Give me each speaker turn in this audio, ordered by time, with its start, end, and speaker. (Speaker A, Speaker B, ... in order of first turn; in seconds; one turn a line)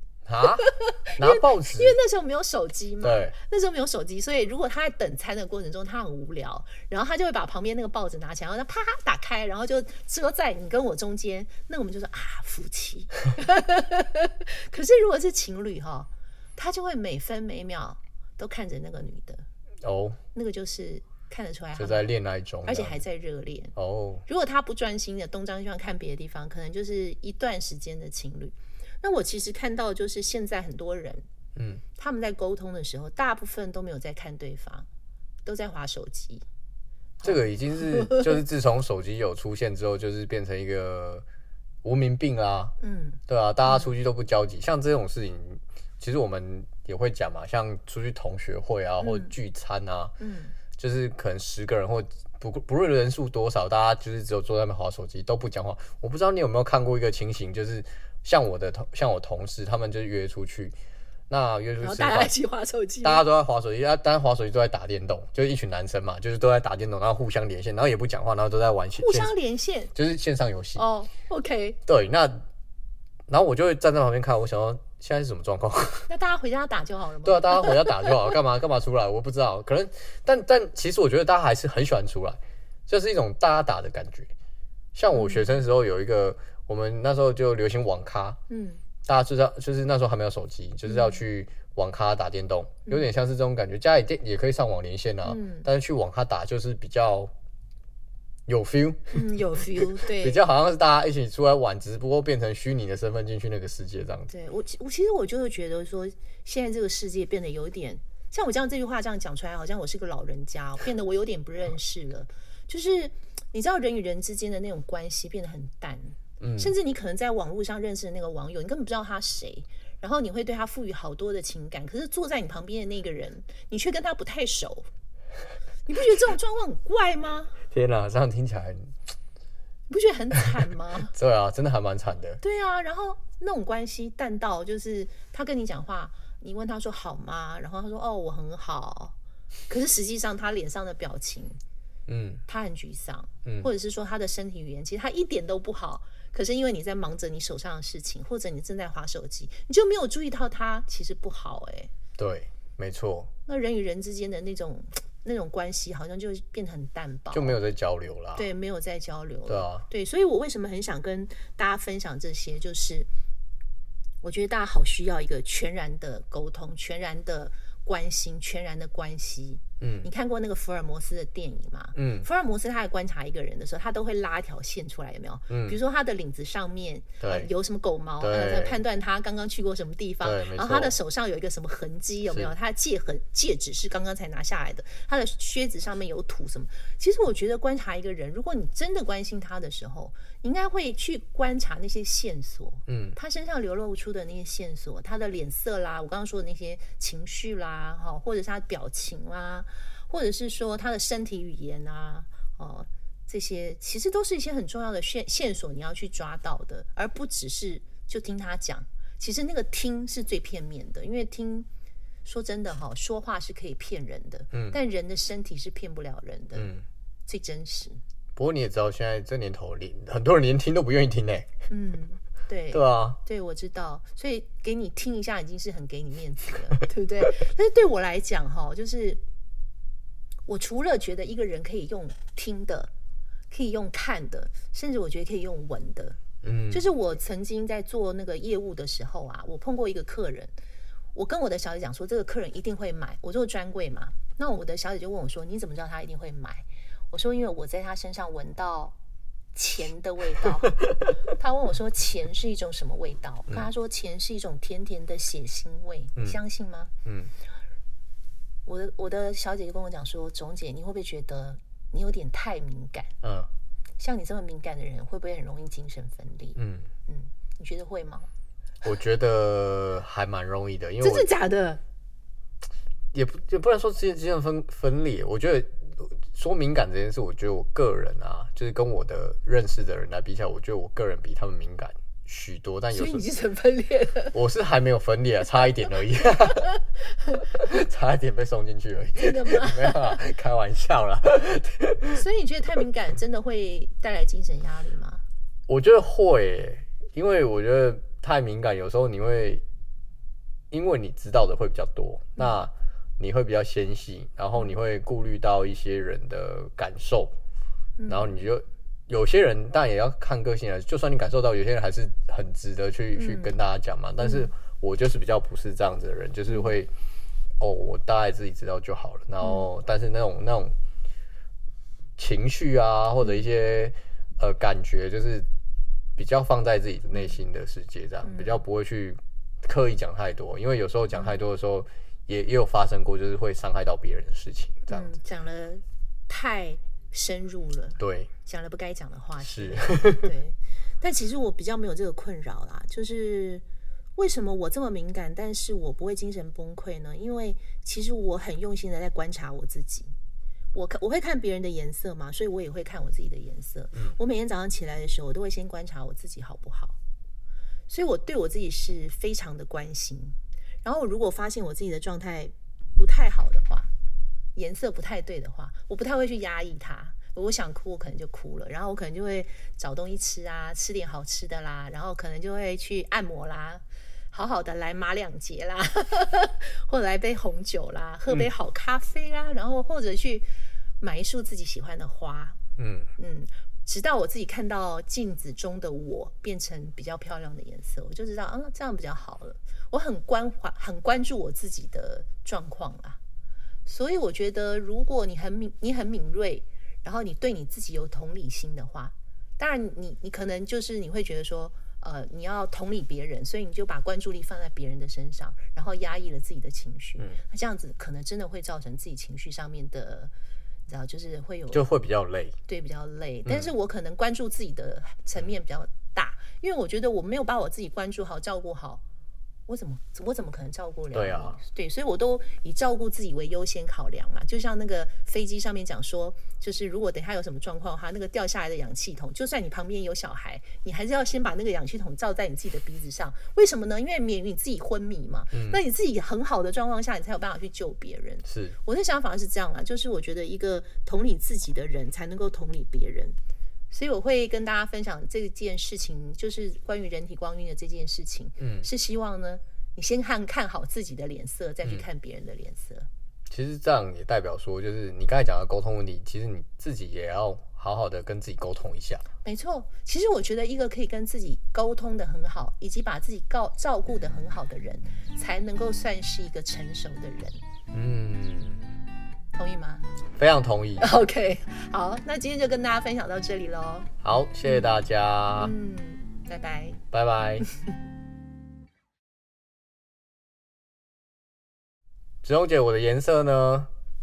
Speaker A: 0.2-2.0
Speaker B: 0.6-19.4
Speaker A: 3.0-3.4
Speaker A: 19.8-20.2
Speaker B: 20.3-22.1
Speaker A: 21.8-23.0
Speaker B: 22.6-23.8
Speaker A: 23.8-24.2
Speaker B: 24.3-31.2
Speaker A: 31.6-31.8
Speaker B: 32.0-34.9
Speaker B: 35.5-36.5
Speaker B: 37.2-38.3
Speaker A: 37.2-41.2
Speaker A: 41.8-42.8
Speaker B: 42.8-43.9
Speaker A: 43.3-50.1
Speaker B: 49.0-49.3
Speaker B: 50.2-50.6
Speaker A: 50.8-60.8
Speaker A: 61.3-62.3
Speaker B: 61.8-63.2
Speaker A: 63.0-69.3
Speaker B: 69.0-69.9
Speaker A: 70.0-70.9
Speaker B: 70.8-71.8
Speaker A: 71.9-72.4
Speaker A: 73.3-76.1
Speaker B: 76.1-78.3
Speaker A: 77.2-84.3
Speaker A: 84.9-88.4
Speaker B: 85.1-85.6
Speaker B: 88.5-88.8
Speaker A: 89.0-97.3
Speaker B: 90.9-91.2
Speaker B: 95.2-95.7
Speaker A: 98.5-104.3
Speaker B: 99.1-100.4
Speaker B: 104.3-124.9
Speaker A: 116.4-116.7
Speaker B: 125.9-127.6
Speaker A: 127.7-128.9
Speaker B: 129.9-131.1
Speaker A: 131.1-132.4
Speaker B: 132.4-139.2
Speaker B: 139.7-141.6
Speaker A: 142.1-142.4
Speaker B: 142.5-151.9
Speaker A: 143.4-143.7
Speaker A: 152.2-153.3
Speaker B: 153.5-157.6
Speaker A: 157.3-158.5
Speaker B: 158.3-163.1
Speaker A: 159.5-159.9
Speaker B: 164.2-211.7
Speaker A: 169.8-170.1
Speaker A: 171.9-172.3
Speaker A: 175.5-175.8
Speaker A: 177.2-177.5
Speaker A: 178.2-178.8
Speaker A: 180.2-181.0
Speaker A: 182.3-182.5
Speaker A: 192.9-193.2
Speaker B: 212.2-216.7
Speaker A: 214.5-214.8
Speaker A: 216.6-216.8
Speaker B: 217.3-218.0
Speaker A: 218.4-221.5
Speaker B: 221.7-229.2
Speaker A: 222.7-223.2
Speaker B: 230.5-232.9
Speaker B: 233.5-236.2
Speaker A: 236.4-236.9
Speaker B: 236.7-240.5
Speaker B: 241.1-249.0
Speaker B: 249.5-256.9
Speaker A: 257.1-257.3
Speaker B: 258.7-263.1
Speaker A: 263.2-263.5
Speaker B: 264.0-268.3
Speaker A: 266.6-266.9
Speaker A: 268.8-271.3
Speaker B: 271.0-271.8
Speaker A: 273.1-283.3
Speaker B: 282.9-284.4
Speaker A: 284.3-286.7
Speaker B: 287.3-287.8
Speaker A: 287.6-292.2
Speaker B: 289.2-290.2
Speaker B: 292.1-295.2
Speaker A: 295.7-299.6
Speaker A: 300.7-307.3
Speaker B: 302.4-302.6
Speaker B: 308.0-308.5
Speaker A: 308.1-316.9
Speaker B: 313.1-313.6
Speaker B: 314.2-314.5
Speaker B: 316.5-316.8
Speaker A: 317.6-320.7
Speaker B: 319.4-319.7
Speaker A: 322.2-325.5
Speaker B: 323.2-323.5
Speaker A: 326.2-335.1
Speaker B: 327.1-327.4
Speaker B: 328.2-328.6
Speaker B: 331.1-331.4
Speaker B: 334.9-343.6
Speaker A: 338.0-338.3
Speaker A: 339.4-340.3
Speaker B: 344.2-350.1
Speaker B: 350.7-357.0
Speaker B: 357.9-363.9
Speaker B: 364.6-382.6
Speaker A: 382.8-383.1
Speaker B: 383.2-393.2
Speaker B: 393.9-410.3
Speaker B: 410.9-411.9
Speaker A: 411.7-412.6
Speaker B: 412.7-419.0
Speaker A: 413.5-413.7
Speaker B: 419.7-443.4
Speaker A: 421.1-421.6
Speaker A: 435.5-435.8
Speaker A: 438.4-438.8
Speaker B: 443.9-453.1
Speaker A: 448.6-448.9
Speaker A: 453.5-459.2
Speaker B: 459.4-467.6
Speaker A: 467.9-468.9
Speaker B: 469.5-470.1
Speaker A: 470.4-471.1
Speaker B: 471.0-474.1
Speaker A: 474.2-475.8
Speaker B: 474.6-475.0
Speaker B: 475.6-477.0
Speaker A: 477.1-477.7
Speaker A: 482.4-483.9